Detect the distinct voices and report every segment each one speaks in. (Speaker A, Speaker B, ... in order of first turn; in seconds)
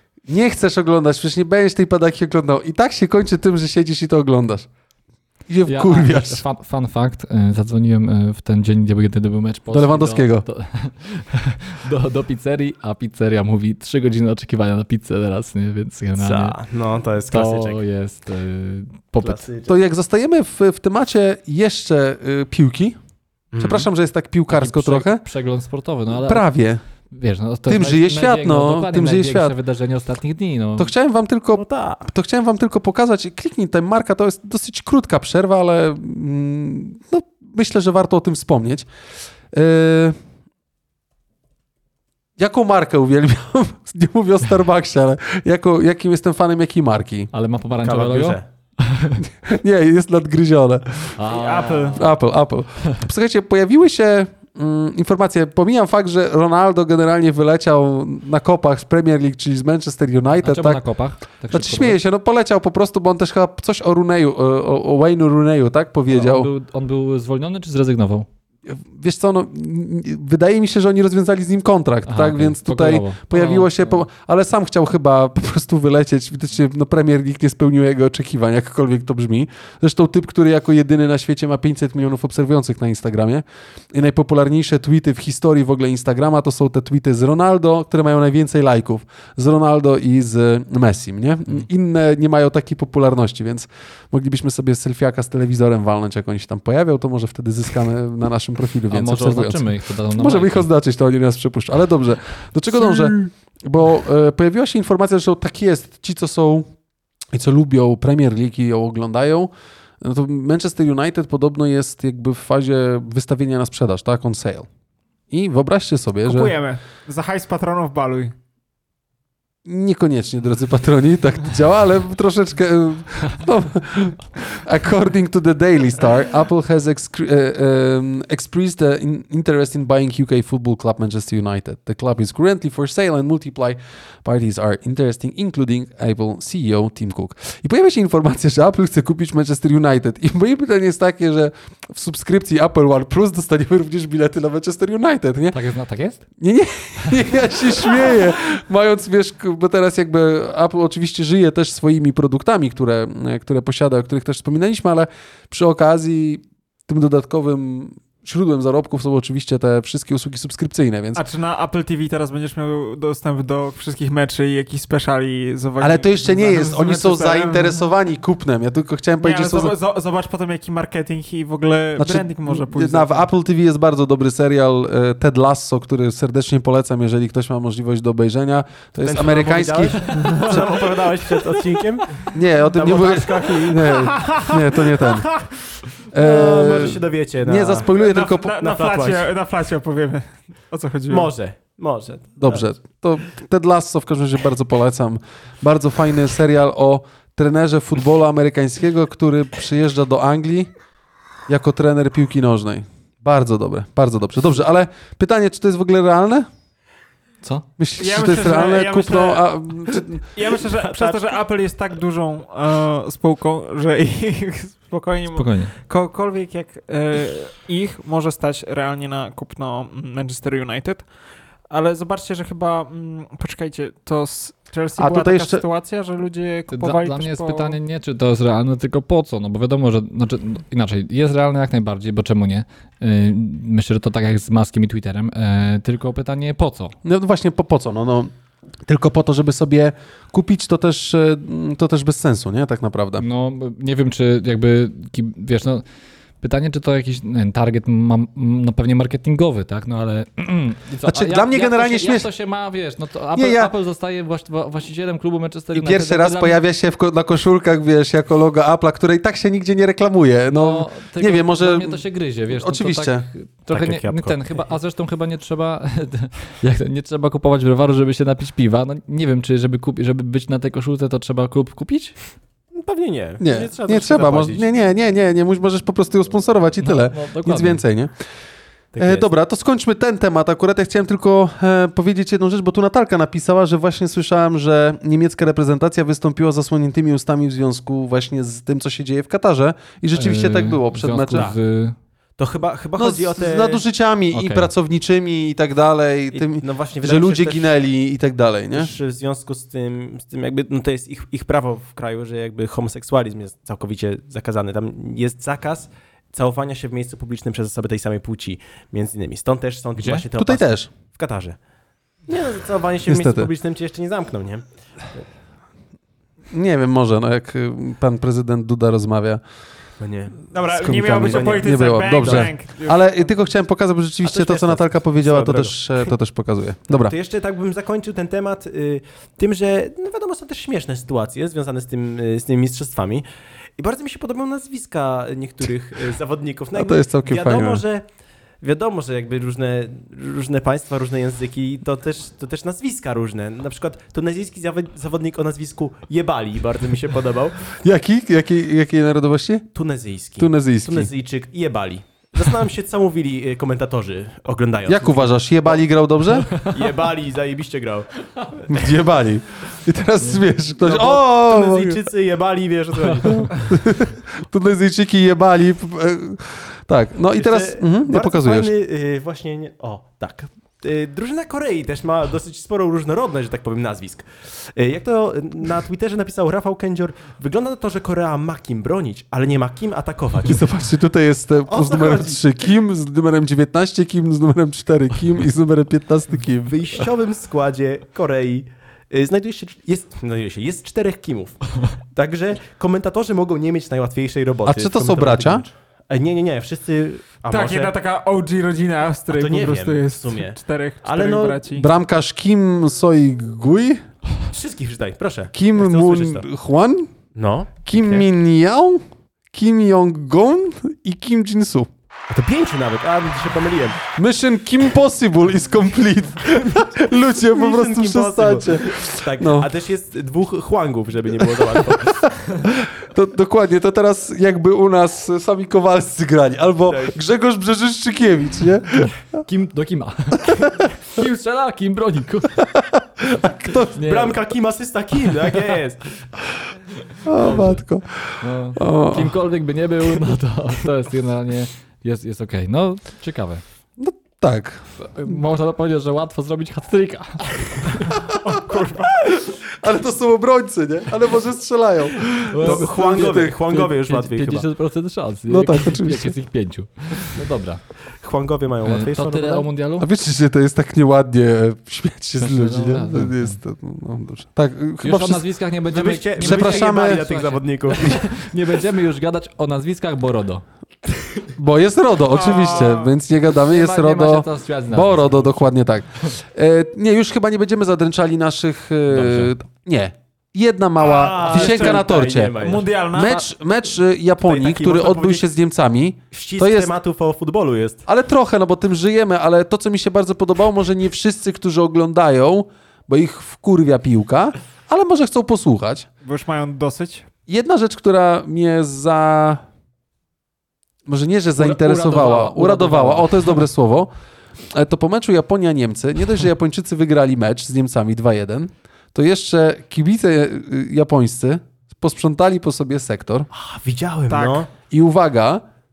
Speaker A: 0.3-4.7, 5.5-6.4, 9.7-10.4, 19.6-23.0, 23.6-25.2, 26.1-26.8, 27.7-29.6, 30.8-38.9, 39.5-40.1, 42.4-47.3, 49.2-51.2, 51.9-60.8, 61.5-66.5, 68.7-106.7, 107.3-109.5, 110.0-114.7, 115.3-116.5, 119.7-145.6, 146.4-161.2, 165.8-169.7, 172.0-180.8, 182.3-185.4, 186.1-188.6, 192.4-200.7, 201.5-206.5, 207.8-210.2, 225.0-225.6, 237.0-238.3, 238.8-243.2, 251.1-252.3, 253.3-253.7, 255.7-263.3, 273.4-278.1, 279.0-291.5, 293.0-298.9, 310.3-310.9, 313.1-313.5, 316.5-319.4, 320.8-327.1, 336.7-337.8, 347.8-349.7, 350.4-351.1, 354.9-356.5, 358.7-362.1, 363.2-368.7, 380.4-387.1, 394.6-395.6, 401.7-404.0, 405.5-407.1, 407.9-409.0, 409.5-411.9, 414.2-419.7, 421.5-429.3, 430.4-430.8, 432.7-433.9, 437.2-439.4, 444.0-445.3, 448.1-453.9, 455.5-456.3, 460.0-465.4, 466.4-467.2, 471.6-486.9, 488.1-496.1, 497.5-499.6, 501.1-504.1, 504.7-513.5, 514.9-515.6
Speaker B: 5.7-16.6, 17.3-19.5, 24.5-26.5, 27.1-30.9, 47.3-49.2, 51.1-52.1, 60.4-62.0, 66.1-68.3, 72.0-74.0, 98.9-100.7, 145.5-146.2, 215.3-215.7, 226.7-236.9, 243.2-245.8, 246.4-256.6, 260.5-272.1, 276.8-277.8, 290.1-291.9, 294.3-294.7, 310.0-310.2, 429.4-432.7, 433.9-434.4, 437.2-437.8, 438.4-443.6, 445.0-448.1, 452.4-457.8, 458.8-460.1, 462.4-463.6, 465.0-470.6, 473.6-475.7, 479.1-479.5, 501.6-503.6
Speaker C: 16.2-17.8, 19.2-19.8, 23.5-23.9, 31.5-32.0, 47.8-48.4, 179.0-183.9, 186.2-187.9, 188.6-189.2, 191.1-192.7, 210.7-211.4, 263.7-264.4, 272.7-274.6, 278.9-279.3, 292.4-293.8, 296.3-297.7, 298.7-311.6, 312.3-314.6, 320.0-322.5, 324.2-326.1, 326.9-333.2, 333.8-338.0, 338.6-347.6, 349.7-355.8, 356.6-358.8, 360.8-363.6, 367.3-380.6, 381.7-382.4, 386.6-397.9, 399.3-401.6, 404.5-406.4, 407.3-408.2, 412.3-414.0, 417.5-422.6, 426.9-427.1, 433.9-436.1, 452.6-454.7, 458.2-459.7, 465.9-468.2, 481.0-482.9, 484.4-485.4, 486.3-488.0, 513.5-514.7
Speaker D: 51.3-52.0, 116.2-118.3, 161.1-167.8, 169.2-173.3, 180.1-180.7, 183.8-185.5, 187.9-191.3, 208.0-221.1, 221.7-227.8, 320.5-323.3, 397.5-401.9, 448.3-449.2, 472.3-473.1, 481.0-483.5, 496.2-497.2, 514.3-514.6